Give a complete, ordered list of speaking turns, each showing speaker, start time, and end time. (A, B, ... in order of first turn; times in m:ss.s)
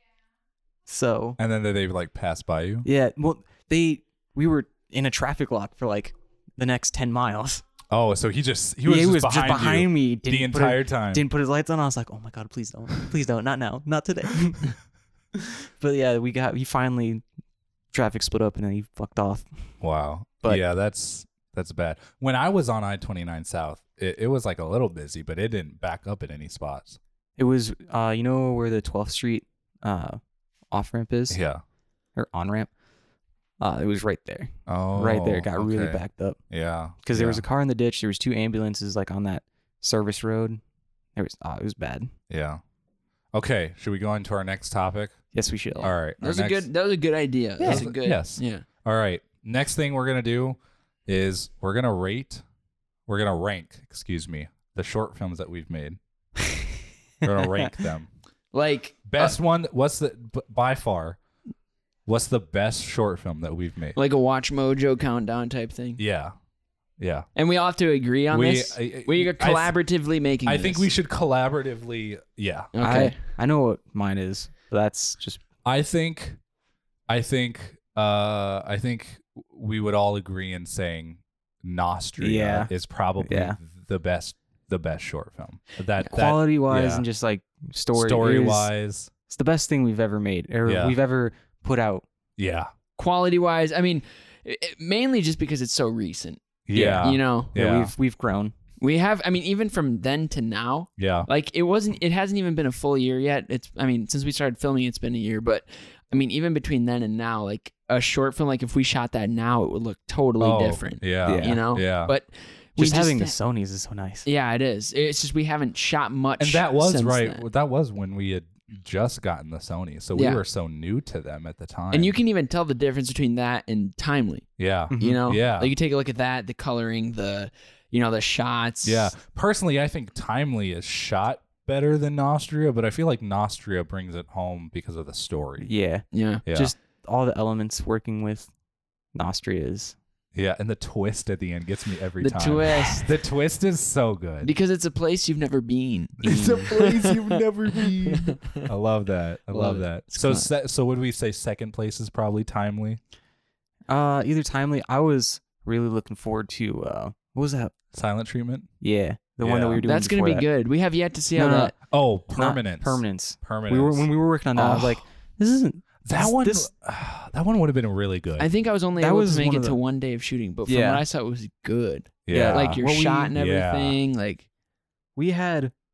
0:00.8-0:01.4 A
0:01.4-0:02.9 B
0:02.8-0:07.6 A
0:07.9-0:11.2 B
0:08.8-0:14.7 A
0:15.3-0:17.2 A
0:17.9-0:19.4 A
0:19.8-0:27.0 B
0:27.4-0:31.4 A
0:31.3-0:31.6 B
0:32.1-0:32.7 A
0:33.6-0:36.4 A
0:34.7-0:37.4 B
0:37.0-0:40.6 A
0:41.2-0:42.1 A
0:42.3-0:42.6 B
0:43.3-0:45.2 B
0:45.3-0:45.9 A
0:45.8-0:46.6 B
0:46.2-0:48.6 C
0:47.6-0:47.9 A
0:47.6-0:52.4 B
0:53.1-0:56.0 B
0:57.2-0:58.1 B
0:58.5-0:59.4 C
0:59.0-1:01.2 B
1:02.0-1:04.0 B
1:03.9-1:06.0 C
1:06.0-1:06.3 B
1:07.0-1:07.3 B
1:07.4-1:10.9 C
1:08.3-1:09.7 B
1:10.4-1:12.7 B
1:12.7-1:13.2 C
1:12.8-1:15.4 A
1:15.6-1:16.4 B
1:17.1-1:27.0 B
1:22.2-1:22.7 A
1:23.2-1:23.6 A
1:26.1-1:28.7 A
1:27.9-1:29.1 B
1:29.3-1:32.0 A
1:30.6-1:31.0 B
1:32.4-1:32.7 B
1:33.0-1:37.6 C
1:36.6-1:37.9 B
1:36.7-1:37.0 A
1:37.5-1:38.5 A
1:38.8-1:53.3 C
1:41.0-1:41.3 B
1:50.4-1:52.1 B
1:51.2-1:51.6 A
1:52.8-1:54.3 A
1:54.2-1:57.4 C
1:56.4-2:02.2 B
2:00.1-2:00.4 C
2:01.9-2:09.1 C
2:04.6-2:05.7 B
2:04.9-2:05.2 A
2:08.8-2:15.7 B
2:15.6-2:18.5 A
2:16.1-2:16.4 C
2:16.4-2:16.7 B
2:19.1-2:20.0 A
2:20.3-2:24.5 B
2:22.2-2:23.1 C
2:24.4-2:27.4 C
2:26.2-2:33.0 B
2:26.2-2:26.7 A
2:28.0-2:28.7 C
2:29.5-2:30.5 C
2:33.9-2:37.7 A
2:37.9-2:38.7 B
2:38.8-2:40.4 A
2:39.4-2:39.8 B
2:39.8-2:41.7 C
2:41.3-2:41.7 A
2:41.9-2:45.0 B
2:42.3-2:46.7 A
2:46.0-2:48.5 B
2:48.4-2:54.5 C
2:49.0-2:49.8 A
2:50.6-2:51.0 A
2:52.2-2:52.8 B
2:52.3-2:53.3 A
2:53.3-2:54.0 B
2:55.2-2:55.7 A